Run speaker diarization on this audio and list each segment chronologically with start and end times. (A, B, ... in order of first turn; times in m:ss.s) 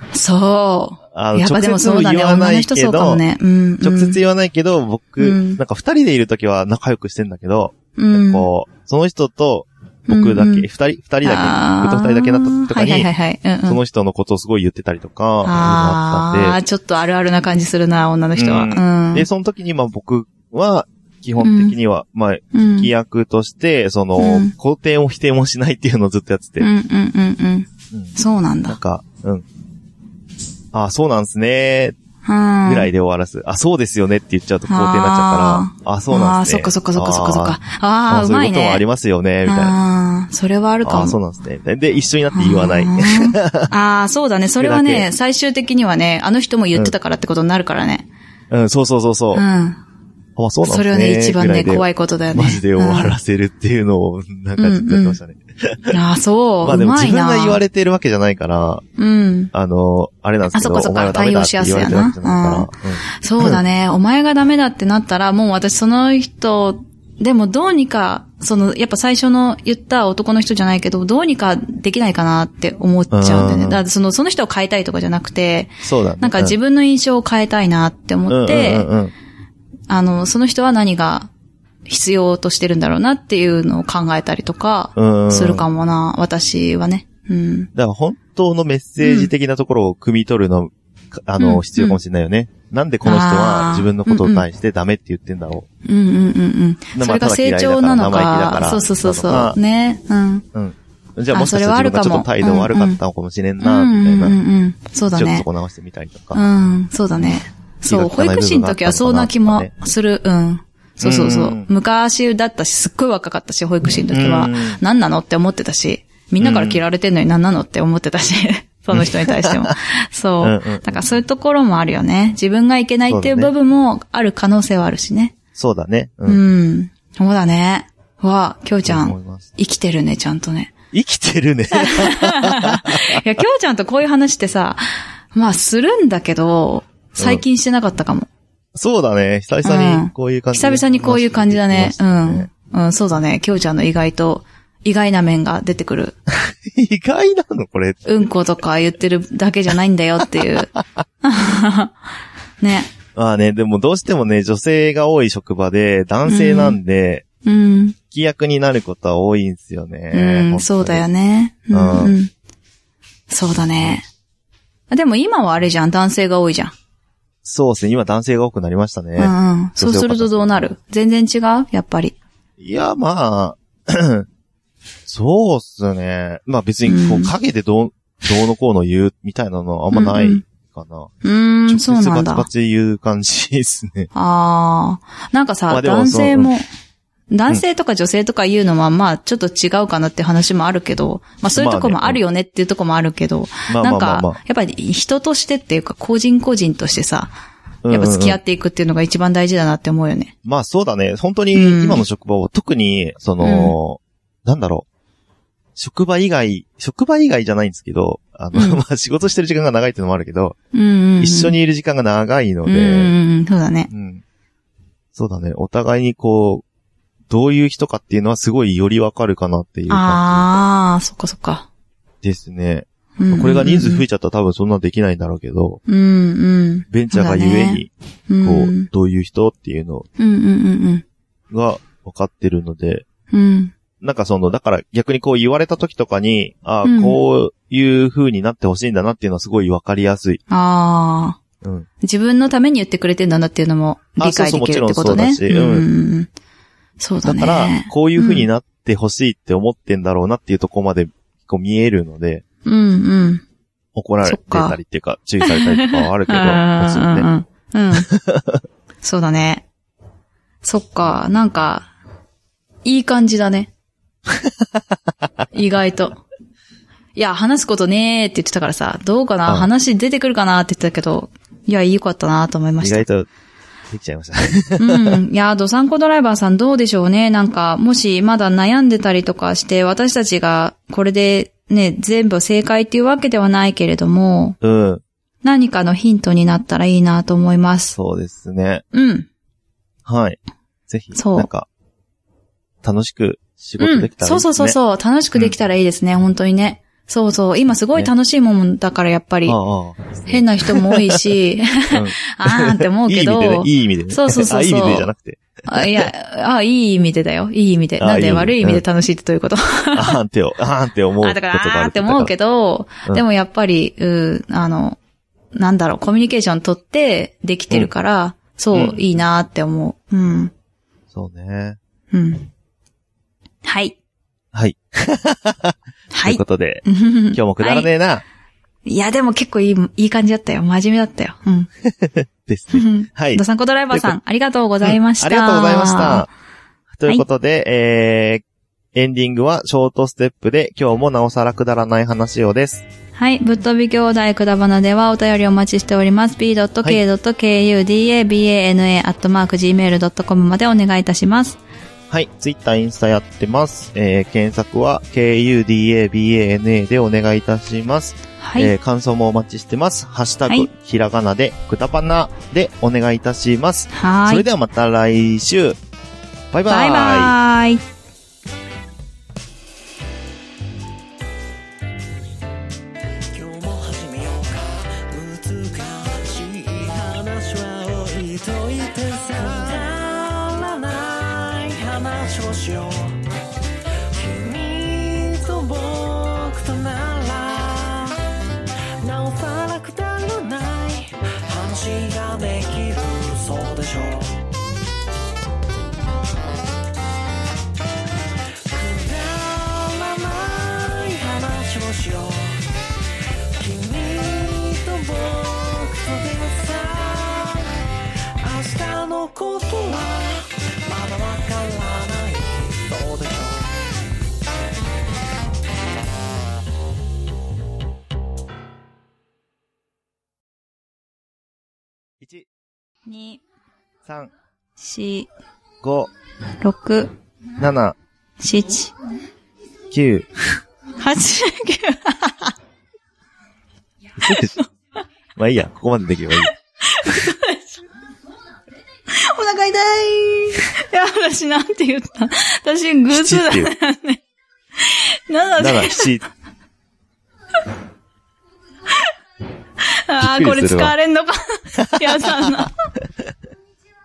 0:00.1-0:04.2 A
0:01.1-0:03.2 B
0:03.8-0:13.1 B
0:05.2-0:05.6 A
0:08.0-0:08.5 A
0:10.1-0:10.7 A
0:11.2-0:13.8 A
0:13.6-0:16.6 B
0:15.4-0:19.3 A
0:18.4-0:26.7 B
0:21.4-0:21.8 A
0:22.5-0:22.9 A
0:24.2-0:24.5 A
0:26.6-0:28.8 A
0:27.9-0:29.4 B
0:30.7-0:32.0 B
0:32.2-0:32.9 A
0:32.6-0:39.8 B
0:34.6-0:38.8 A
0:39.4-0:41.2 A
0:40.8-0:43.7 B
0:42.3-0:48.1 A
0:44.6-0:45.1 B
0:48.5-0:49.4 B
0:49.3-0:49.8 A
0:50.4-0:56.0 B
0:50.6-0:53.2 A
0:54.6-0:55.2 A
0:55.9-0:57.6 A
0:56.6-0:58.8 B
0:59.0-0:59.5 A
0:59.5-1:03.6 B
1:00.5-1:18.9 A
1:13.1-1:13.8 B
1:15.8-1:16.6 B
1:18.3-1:19.1 B
1:19.9-1:21.3 A
1:21.9-1:27.7 A
1:25.0-1:25.6 B
1:27.7-1:35.7 B
1:29.0-1:29.3 A
1:31.4-1:32.0 A
1:33.0-1:34.4 A
1:35.8-1:40.4 A
1:36.9-1:39.6 B
1:40.5-1:44.4 B
1:41.3-1:43.0 A
1:43.6-1:45.5 A
1:45.1-1:46.4 B
1:46.3-2:05.3 A
1:47.9-1:49.7 B
1:51.0-1:51.7 B
1:54.1-1:54.8 B
1:56.4-1:56.8 B
1:58.9-1:59.7 B
2:00.4-2:01.0 B
2:03.1-2:03.5 B
2:05.5-2:06.4 B
2:06.3-2:10.7 A
2:08.8-2:09.5 B
2:10.9-2:13.4 B
2:11.8-2:18.3 A
2:17.2-2:17.4 B
2:18.7-2:22.5 B
2:19.6-2:26.2 A
2:26.6-2:28.3 B
2:28.0-2:30.7 A
2:31.2-2:31.9 A
2:32.6-2:32.9 A
2:33.2-2:37.2 B
2:36.3-2:36.8 A
2:37.4-2:38.0 A
2:38.1-2:41.0 B
2:40.1-2:42.3 A
2:41.7-2:42.2 B
2:43.3-2:44.0 A
2:44.9-2:46.7 A
2:47.4-2:50.7 B
2:49.2-2:52.2 A
2:52.6-2:54.3 B
2:55.1-3:01.1 B
2:56.8-2:57.3 A
2:59.9-3:00.4 A
3:01.2-3:02.5 A
3:01.6-3:04.1 B
3:04.1-3:06.7 A
3:05.7-3:06.5 B
3:07.3-3:17.3 A
3:11.6-3:12.2 B
3:13.7-3:14.4 B
3:17.8-3:18.4 B
3:17.9-3:20.3 A
3:20.4-3:24.8 B
3:21.5-3:22.0 A
3:23.4-3:23.7 A
3:25.8-3:30.6 B
3:28.5-3:28.8 A
3:30.7-3:31.6 A
3:31.2-3:33.1 B
3:32.6-3:33.9 A
3:33.9-3:34.2 B
3:35.1-3:36.6 B
3:37.3-3:40.6 B
3:39.9-3:41.7 A
3:42.2-3:45.8 B
3:43.2-3:44.0 A
3:45.9-3:48.9 A
3:46.9-3:47.9 B
3:48.4-3:50.1 B
3:50.2-3:51.0 A
3:51.5-3:53.0 B
3:53.3-3:53.7 A
3:54.0-4:00.4 B
3:56.8-3:57.2 A
4:00.5-4:01.4 A
4:01.6-4:01.9 B
4:02.0-4:06.3 A
4:04.2-4:05.9 B
4:07.0-4:08.5 A
4:07.2-4:12.4 B
4:12.6-4:13.4 A
4:13.9-4:17.3 B
4:14.2-4:14.8 A
4:15.4-4:18.1 A
4:18.1-4:18.6 B
4:19.0-4:19.6 A
4:20.6-4:21.9 A
4:22.8-4:23.7 A
4:25.5-4:26.2 A
4:27.1-4:33.1 A
4:32.8-4:33.3 B
4:33.9-4:35.2 B
4:34.8-4:44.6 A
4:44.6-4:45.0 B
4:45.4-4:48.0 A
4:47.9-4:48.8 B
4:48.9-4:49.3 A
4:50.0-4:51.7 B
4:51.1-4:51.5 A
4:52.8-4:54.8 B
4:53.8-4:59.6 A
4:59.5-5:01.2 B
5:00.2-5:05.1 A
5:01.9-5:06.1 B
5:05.7-5:10.2 A
5:08.0-5:08.8 B
5:09.9-5:12.3 B
5:11.2-5:15.0 A
5:15.5-5:20.5 A
5:18.7-5:19.2 B
5:21.1-5:21.8 B
5:22.1-5:22.5 A
5:23.6-5:24.0 A
5:24.5-5:28.2 B
5:26.1-5:27.9 A
5:28.8-5:31.7 A
5:31.9-5:34.2 B
5:32.7-5:36.2 A
5:34.8-5:36.3 B
5:36.9-5:42.8 B
5:43.2-5:51.6 A
5:52.1-6:05.8 B
5:58.4-5:58.7 A
6:03.9-6:04.4 A
6:06.5-6:07.4 B
6:06.7-6:07.8 A
6:13.3-6:23.2 C
6:24.1-6:28.2 C
6:29.0-6:34.3 C
6:38.7-6:42.6 C
6:43.6-6:47.7 C
6:48.4-6:53.7 C
7:02.2-7:02.4 B
7:03.1-7:03.4 A
7:04.0-7:04.3 B
7:04.8-7:05.3 A
7:05.8-7:06.1 B
7:06.6-7:07.1 A
7:07.6-7:08.0 B
7:08.4-7:08.9 A
7:09.9-7:10.2 B
7:11.0-7:12.5 A
7:14.2-7:14.6 B
7:15.4-7:16.5 B
7:16.8-7:17.7 A
7:19.1-7:24.2 A
7:23.1-7:23.7 B
7:24.8-7:26.1 A
7:25.6-7:26.2 B
7:29.8-7:32.8 A
7:30.2-7:30.9 B
7:31.8-7:32.6 B